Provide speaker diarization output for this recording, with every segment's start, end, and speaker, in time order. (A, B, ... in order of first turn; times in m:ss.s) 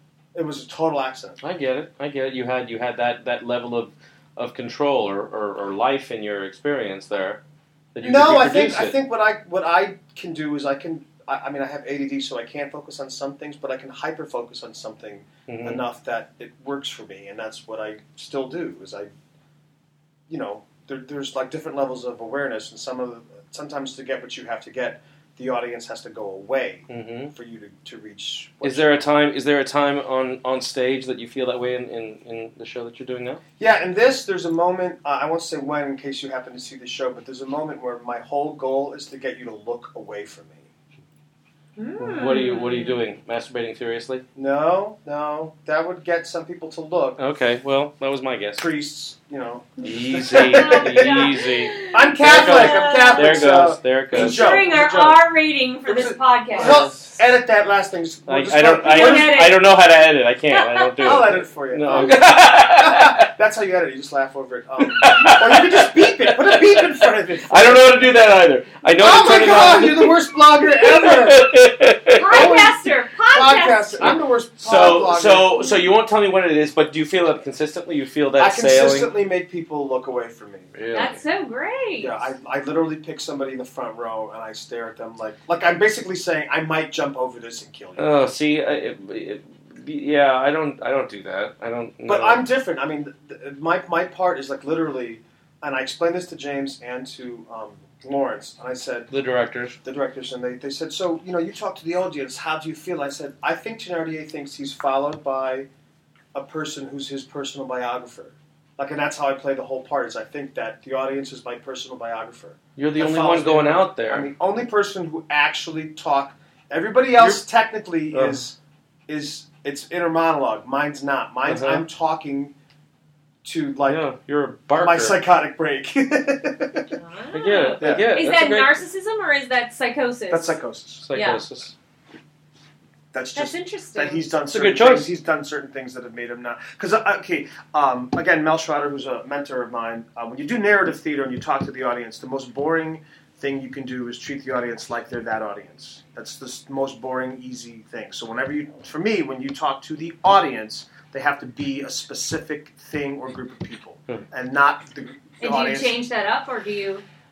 0:00.3-0:01.4 A
0:01.4-0:07.4 B
0:07.9-0:09.0 B
0:08.0-0:19.1 A
0:15.5-0:15.8 B
0:20.3-0:29.1 A
0:26.9-0:27.3 B
0:28.6-0:33.4 B
0:33.6-0:40.7 A
0:41.8-0:43.0 C
0:42.0-0:44.2 B
0:44.3-0:47.2 A
0:47.2-0:48.6 B
0:48.6-0:55.2 A
0:49.8-0:54.6 B
0:50.3-0:53.5 C
0:54.1-0:56.9 C
0:55.8-0:59.4 A
0:56.6-0:57.1 B
0:58.3-1:03.3 B
0:58.8-0:59.6 C
1:00.5-1:01.2 C
1:01.0-1:08.1 A
1:04.8-1:07.0 B
1:07.5-1:12.5 B
1:09.0-1:11.5 A
1:12.1-1:14.1 C
1:12.3-1:15.7 A
1:14.0-1:19.1 B
1:18.4-1:20.7 A
1:20.7-1:21.2 B
1:20.9-1:22.1 C
1:22.0-1:28.1 A
1:28.0-1:32.4 B
1:32.0-1:39.1 A
1:39.1-1:39.8 B
1:39.8-1:45.7 A
1:46.3-1:58.6 A
1:52.8-1:54.3 B
1:58.1-1:58.4 B
1:59.1-2:02.5 A
2:01.4-2:01.8 B
2:03.4-2:04.0 A
2:03.9-2:05.2 B
2:04.8-2:06.9 A
2:06.9-2:10.6 C
2:07.3-2:08.8 B
2:07.8-2:08.1 A
2:10.3-2:11.0 A
2:11.0-2:11.7 B
2:11.1-2:11.4 C
2:13.1-2:36.0 A
2:13.4-2:14.2 C
2:14.5-2:15.1 B
2:35.4-2:37.0 C